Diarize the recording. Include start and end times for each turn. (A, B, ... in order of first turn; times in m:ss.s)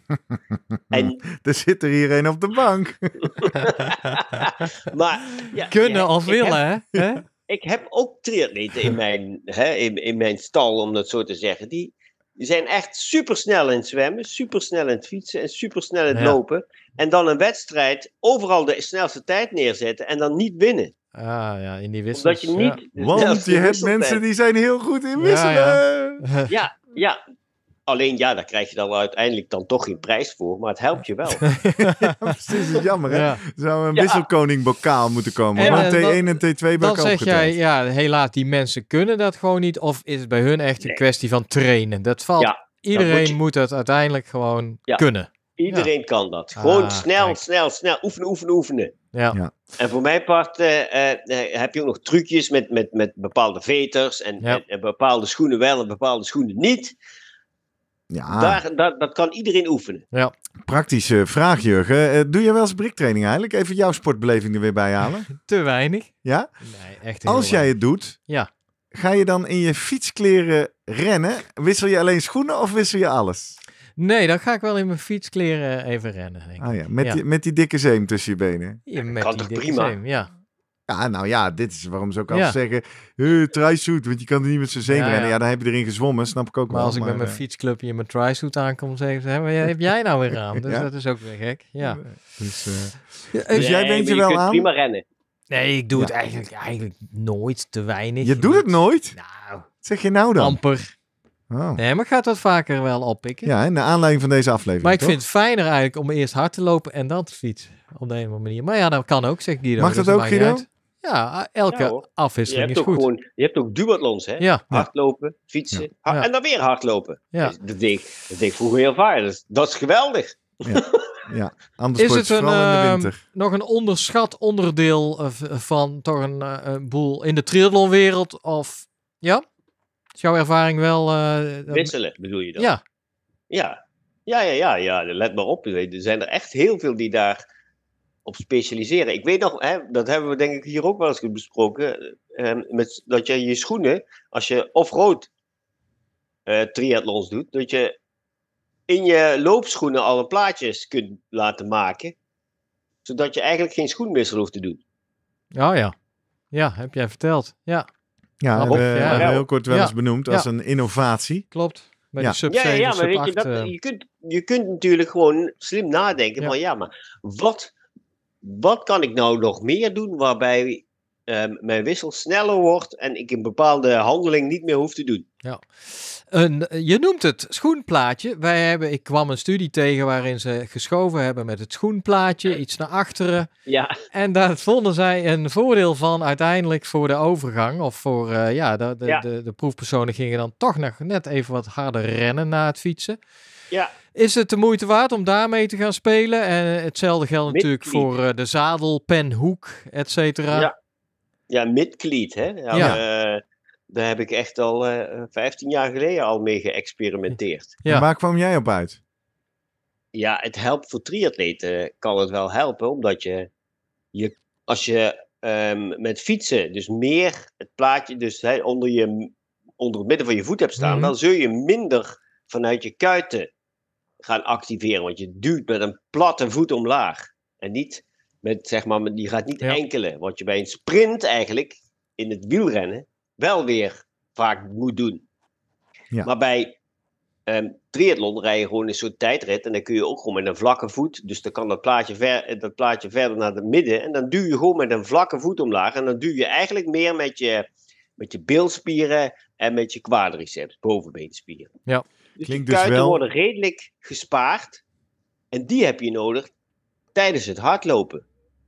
0:00.3-0:04.4 A
0:00.9-0:01.2 B
0:03.4-0:06.6 B
0:05.7-0:07.2 C
0:07.5-0:20.9 B
0:21.2-0:22.8 C
0:22.2-0:24.2 B
0:23.0-0:26.2 A
0:25.2-0:26.5 C
0:26.5-0:27.2 B
0:27.9-0:31.5 B
0:31.4-0:32.3 C
0:31.8-0:37.5 A
0:33.1-0:33.4 C
0:33.9-0:34.2 B
0:35.6-0:36.2 C
0:35.6-0:35.9 B
0:36.8-0:45.9 C
0:42.4-0:43.4 B
0:45.6-0:48.9 B
0:46.6-0:47.4 C
0:49.1-0:49.4 C
0:49.8-0:56.9 B
0:58.1-0:58.6 A
0:58.3-1:00.0 B
1:00.6-1:05.3 A
1:05.3-1:06.1 C
1:06.2-1:06.5 A
1:06.6-1:07.7 C
1:07.2-1:08.2 A
1:08.9-1:13.6 A
1:14.0-1:17.2 C
1:16.6-1:18.8 A
1:18.9-1:20.3 C
1:19.0-1:20.0 B
1:20.9-1:27.4 A
1:22.3-1:22.6 C
1:24.9-1:25.3 C
1:26.7-1:32.0 C
1:30.5-1:30.9 A
1:31.8-1:34.7 A
1:33.3-1:33.7 C
1:33.5-1:35.0 B
1:35.5-1:39.7 C
1:38.2-1:39.2 A
1:39.8-1:40.6 A
1:40.4-1:40.9 C
1:41.5-1:41.8 A
1:41.8-1:43.5 C
1:43.4-1:45.2 A
1:44.8-1:53.0 C
1:49.8-1:50.6 A
1:51.7-2:01.0 B
2:00.6-2:03.2 A
2:02.0-2:09.4 C
2:10.2-2:11.9 C
2:11.7-2:12.7 B
2:13.5-2:17.4 B
2:18.2-2:25.3 B
2:26.4-2:27.9 B
2:28.9-2:32.1 B
2:33.0-2:34.8 B
2:35.5-2:35.9 C
2:36.5-2:37.9 C
2:38.4-2:41.5 A
2:38.5-2:40.5 C
2:38.7-2:39.4 B
2:41.5-2:43.7 C
2:42.5-2:47.7 B
2:48.4-2:55.3 B
2:55.4-3:03.5 C
3:03.7-3:03.9 B
3:04.1-3:13.2 C
3:14.1-3:20.7 C
3:17.5-3:18.0 B
3:21.5-3:27.8 B
3:22.7-3:23.0 C
3:27.8-3:29.0 A
3:30.1-3:33.5 B
3:34.1-3:43.5 B
3:40.8-3:41.1 C
3:44.2-3:55.2 B
3:56.2-3:56.7 B
3:57.5-4:07.7 B
4:08.2-4:11.7 B
4:12.4-4:14.8 B
4:12.4-4:13.2 A
4:15.5-4:16.5 B
4:17.1-4:18.2 B